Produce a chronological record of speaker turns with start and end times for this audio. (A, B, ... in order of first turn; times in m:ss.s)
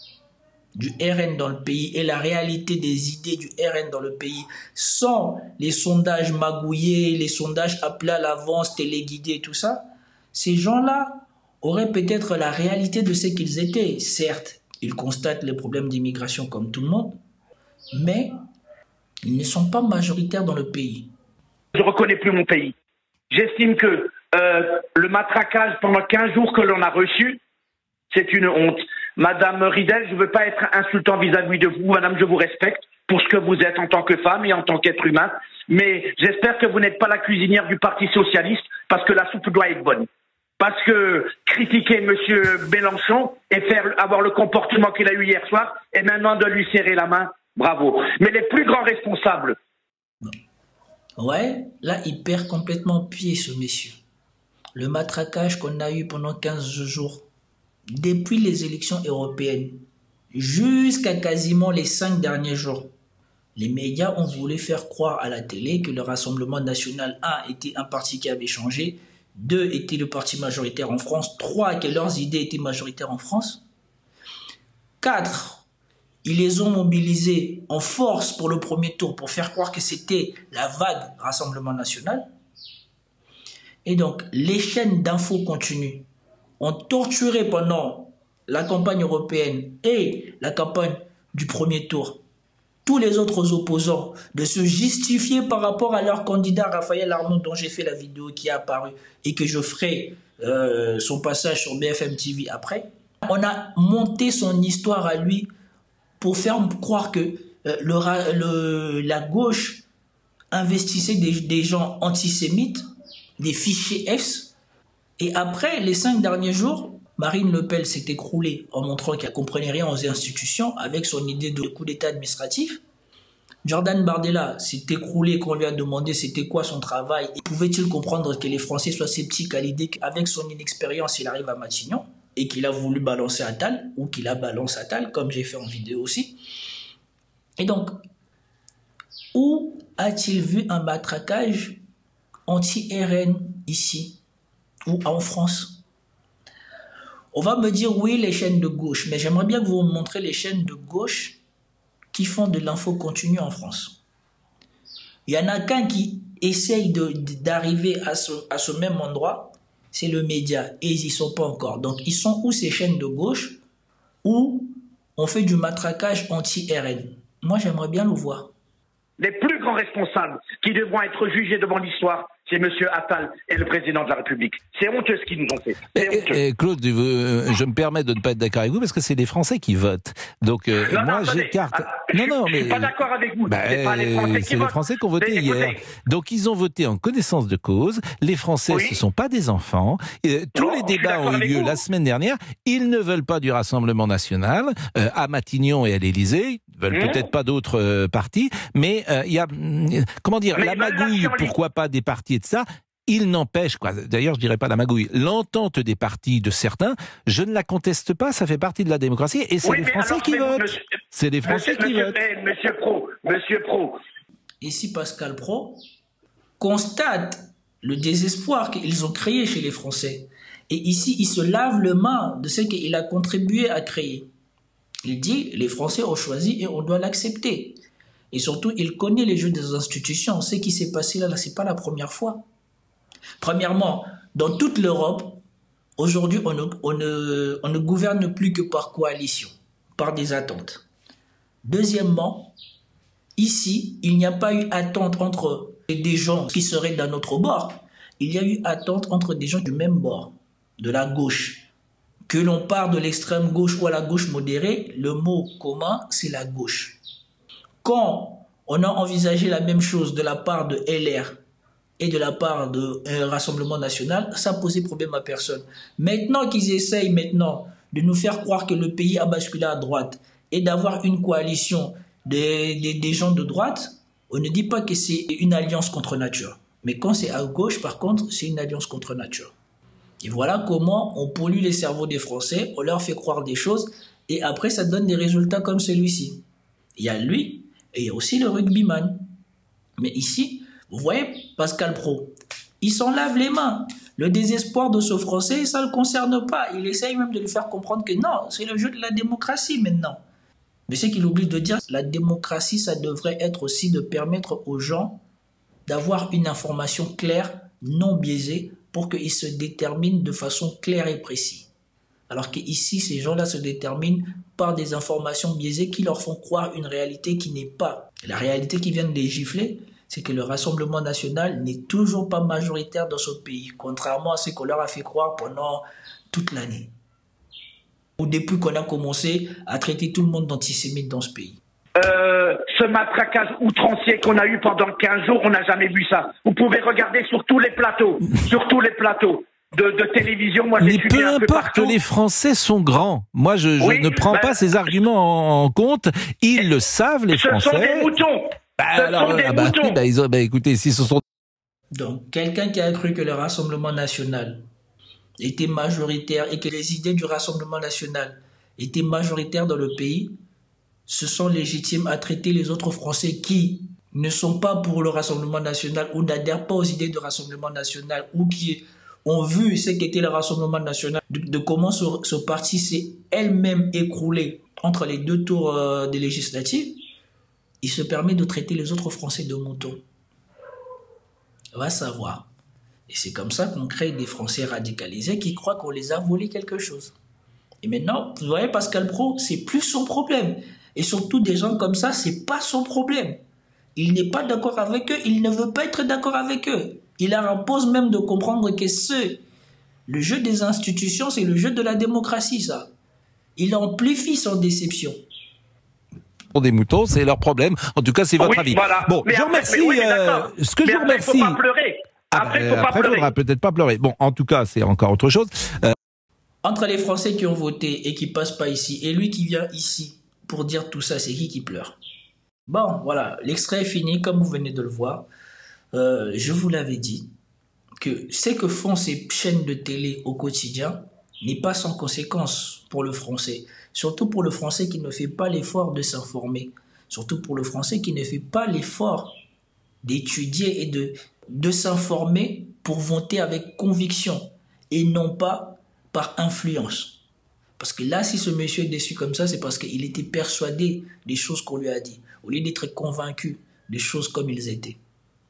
0:00.8-0:17.2 A
0:18.0-0:18.3 A
0:19.3-0:21.1 A
0:21.7-0:22.7 B
0:23.3-0:27.4 B
0:28.1-0:40.1 B
0:40.6-0:49.6 B
0:51.2-0:54.0 A
0:54.8-0:57.3 A
0:57.9-0:59.8 A
1:00.3-1:02.9 A
1:03.6-1:13.6 A
1:15.0-1:15.6 A
1:16.2-1:22.3 A
1:23.8-1:26.1 A
1:26.6-1:32.2 A
1:32.9-1:45.5 A
1:46.2-1:49.8 A
1:50.5-1:52.8 A
1:53.4-1:54.5 A
1:55.2-2:02.8 A
2:03.6-2:16.4 A
2:17.6-2:18.0 A
2:19.3-2:21.8 A
2:22.5-2:24.2 A
2:24.9-2:25.8 A
2:27.3-2:31.4 A
2:32.1-2:34.0 A
2:35.3-2:43.6 A
2:44.2-2:48.5 A
2:49.2-2:56.4 B
2:56.0-3:02.9 C
3:00.8-3:05.9 B
3:03.5-3:32.2 C
3:08.7-3:09.0 B
3:10.6-3:11.8 B
3:16.9-3:17.2 B
3:20.6-3:21.5 B
3:29.6-3:30.8 B
3:31.4-3:34.0 B
3:34.6-3:35.8 A
3:36.6-3:44.3 A
3:45.0-3:47.8 A
3:48.3-3:52.4 A
3:53.4-3:55.4 A
3:56.0-4:00.9 A
4:01.6-4:02.5 A
4:03.4-4:11.7 A
4:12.3-4:17.0 A
4:17.8-4:21.4 A
4:22.0-4:39.5 A
4:40.2-4:46.4 A
4:47.0-4:49.3 A
4:50.0-5:00.2 A
5:00.9-5:05.2 A
5:05.9-5:11.7 A
5:12.3-5:26.9 A
5:28.2-5:31.6 A
5:32.0-5:42.0 B
5:40.8-5:48.1 C
5:43.8-5:44.7 B
5:47.3-5:50.0 B
5:48.8-5:51.2 C
5:51.9-5:54.6 A
5:55.4-6:00.4 A
6:01.1-6:17.0 A
6:17.8-6:20.0 A
6:21.8-6:22.5 A
6:23.1-6:27.2 A
6:27.8-6:33.4 A
6:34.0-6:39.4 A
6:40.1-6:42.9 A
6:43.6-6:45.2 A
6:46.5-6:51.6 C
6:48.4-6:53.3 B
6:52.3-6:55.9 C
6:56.6-7:02.0 A
7:02.7-7:05.3 A
7:05.9-7:07.3 A
7:08.0-7:19.3 A
7:20.0-7:27.2 A
7:27.8-7:35.0 A